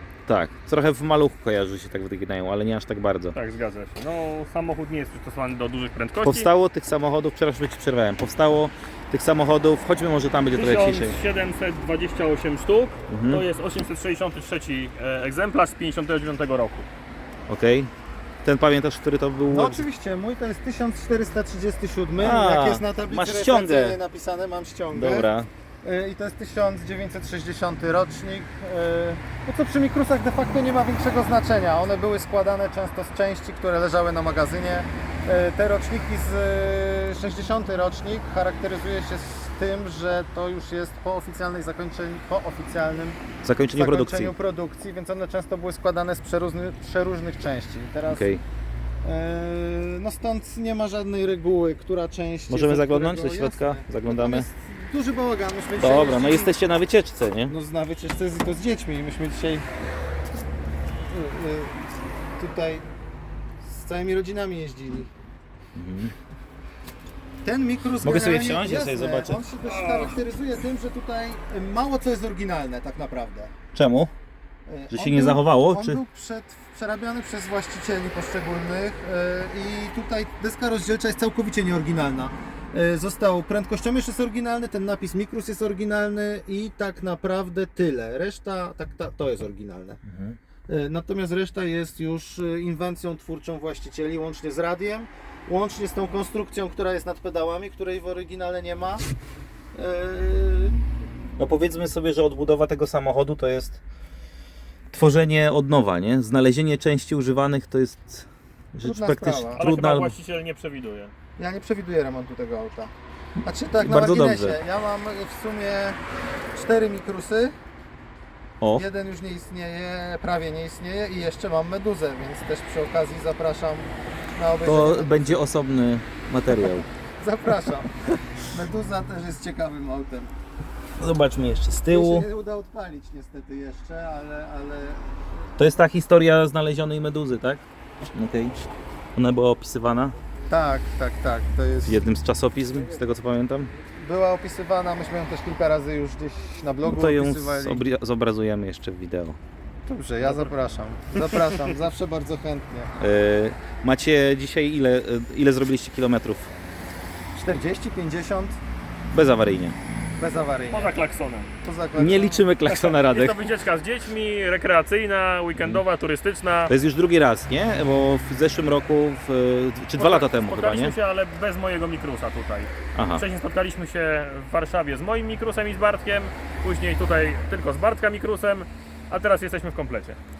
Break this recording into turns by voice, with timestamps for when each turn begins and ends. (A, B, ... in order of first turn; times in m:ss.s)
0:00.3-0:03.4 A
0:03.3-0:06.5 B
0:06.2-0:11.2 A
0:10.5-0:16.9 B
0:13.1-0:13.4 A
0:17.5-0:17.9 A
0:18.4-0:19.8 A
0:19.5-0:25.3 C
0:22.2-0:24.0 A
0:24.9-0:25.5 A
0:25.8-0:43.2 C
0:43.4-0:44.3 A
0:43.7-0:48.4 C
0:48.1-0:48.4 A
0:49.0-0:56.6 C
0:52.5-0:54.5 A
0:55.8-0:57.5 A
0:57.5-0:59.6 C
1:01.1-1:01.9 C
1:02.4-1:02.8 C
1:03.6-1:05.1 C
1:05.8-1:06.1 A
1:07.4-1:13.5 C
1:08.0-1:09.4 A
1:09.6-1:10.1 B
1:13.7-1:14.1 A
1:14.7-1:30.0 C
1:14.9-1:16.0 A
1:30.1-1:30.4 A
1:30.7-1:39.0 C
1:39.7-1:40.8 C
1:41.4-1:43.8 A
1:44.9-1:50.1 A
1:48.8-1:49.6 C
1:49.5-1:51.1 B
1:51.4-1:52.9 C
1:53.4-1:56.0 C
1:53.8-1:54.6 A
1:56.5-1:57.5 C
1:58.7-2:05.4 C
2:04.6-2:06.9 A
2:07.2-2:10.3 C
2:11.0-2:12.3 A
2:11.9-2:15.3 C
2:15.6-2:18.5 A
2:19.2-2:20.1 A
2:20.5-2:22.0 C
2:21.8-2:23.7 A
2:24.0-2:27.8 C
2:26.8-2:29.4 A
2:29.8-2:32.9 C
2:30.2-2:30.6 B
2:33.0-2:36.5 A
2:37.3-2:38.6 C
2:39.1-2:39.8 A
2:40.2-2:40.9 C
2:40.7-2:41.5 B
2:41.6-2:43.0 C
2:42.0-2:43.4 A
2:43.0-2:46.7 B
2:46.7-2:51.0 A
2:49.9-3:00.2 B
2:52.9-2:53.2 A